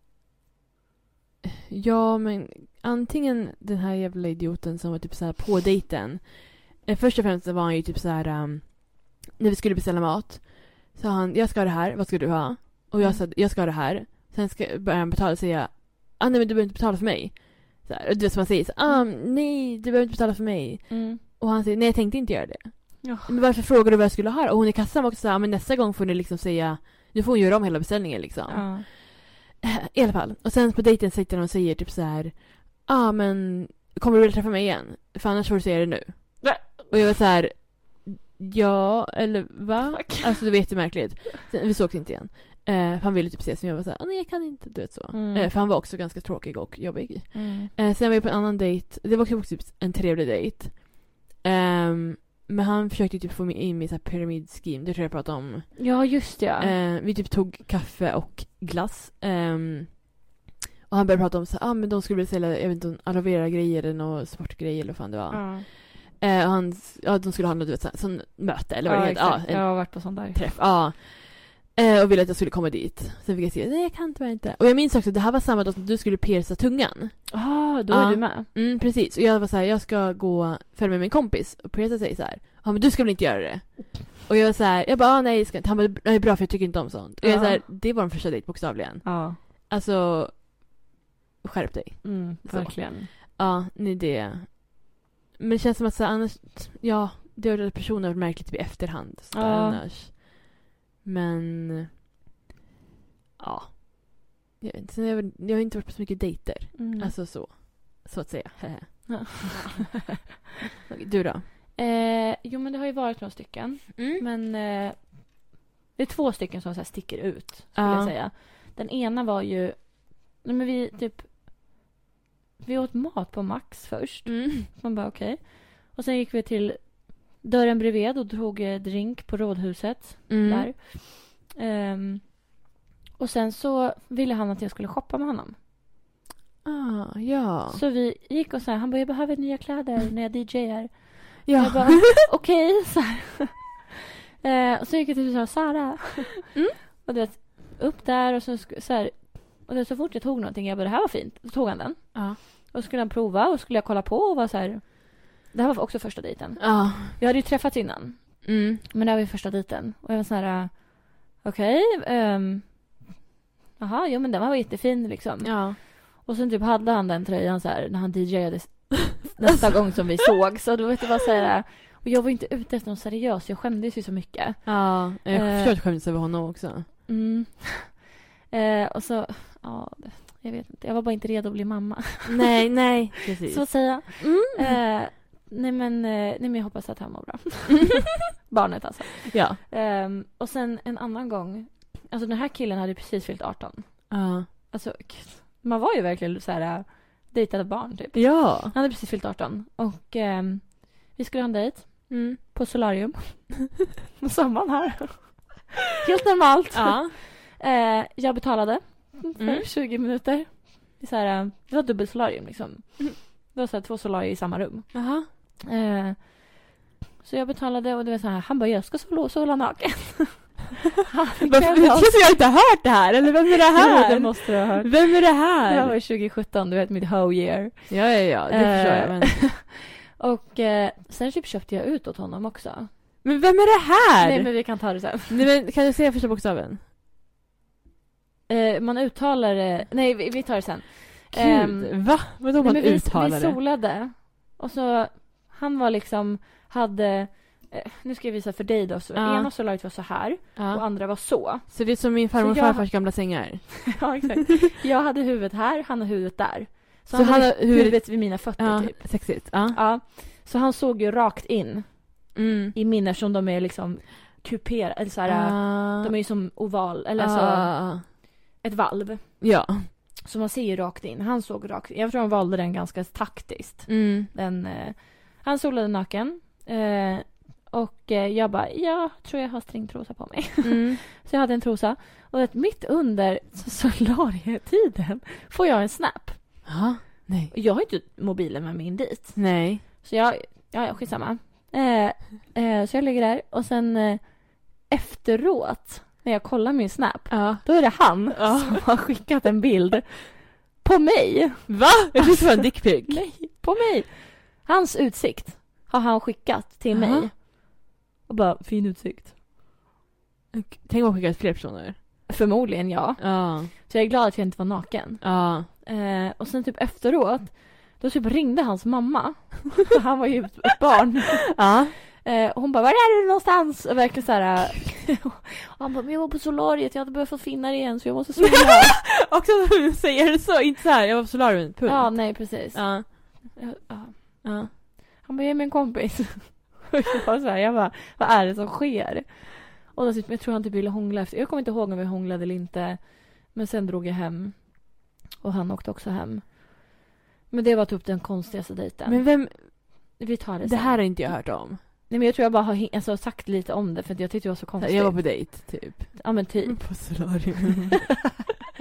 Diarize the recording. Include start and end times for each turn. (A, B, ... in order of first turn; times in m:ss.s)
0:01.7-1:00.2 A
0:20.9-0:21.2 B
0:23.0-0:23.4 B
0:28.5-0:28.8 B
0:36.4-0:37.0 B
0:39.9-0:40.5 B
0:45.1-0:45.5 B
0:47.3-0:47.7 B
0:55.8-0:56.7 B
1:00.9-1:30.5 A
1:05.3-1:05.6 B
1:08.8-1:10.4 B
1:17.3-1:18.5 B
1:27.2-1:27.6 B
1:29.0-1:29.4 B
1:31.4-1:41.9 A
1:32.0-1:33.1 B
1:39.3-1:39.8 B
1:43.4-1:49.9 A
1:46.8-1:47.1 B
1:49.1-1:50.3 B
1:50.9-1:51.4 A
1:51.8-2:01.5 B
1:54.0-1:54.2 A
1:57.7-1:58.1 A
2:02.6-2:12.6 B
2:04.2-2:04.7 A
2:10.3-2:10.7 A
2:13.2-2:15.6 B
2:16.6-2:17.8 A
2:17.7-2:43.0 B
2:21.4-2:22.2 A
2:36.6-2:37.2 A
2:38.4-2:38.8 A
2:43.8-2:55.7 B
2:45.4-2:45.8 A
2:54.6-2:56.9 A
2:57.1-3:36.7 B
3:02.2-3:04.8 A
3:09.3-3:09.6 A
3:14.1-3:14.5 A
3:18.1-3:18.7 A
3:22.1-3:22.4 A
3:26.7-3:27.1 A
3:29.4-3:29.7 A
3:34.9-3:35.3 A
3:37.2-3:42.6 B
3:41.4-3:45.9 A
3:43.7-3:52.9 B
3:47.9-3:49.5 A
3:53.2-3:54.7 A
3:54.2-3:55.4 B
3:55.3-3:56.8 A
3:58.5-4:46.7 B
4:01.3-4:03.6 A
4:09.2-4:09.5 A
4:10.6-4:14.2 A
4:17.1-4:19.8 A
4:22.3-4:22.7 A
4:25.3-4:26.1 A
4:27.2-4:28.0 A
4:29.4-4:29.9 A
4:33.9-4:34.3 A
4:40.6-4:41.0 A
4:46.6-4:47.5 A
4:47.5-5:09.3 B
4:49.4-4:49.8 A
4:57.3-4:58.8 A
5:01.7-5:03.2 A
5:06.9-5:07.3 A
5:10.5-5:12.2 A
5:12.3-5:21.7 B
5:13.2-5:13.7 A
5:15.2-5:15.7 A
5:21.5-5:21.9 A
5:22.2-5:29.0 B
5:28.4-5:33.5 A
5:31.8-5:57.4 B
5:34.4-5:34.7 A
5:49.0-5:51.8 A
5:54.8-5:58.2 A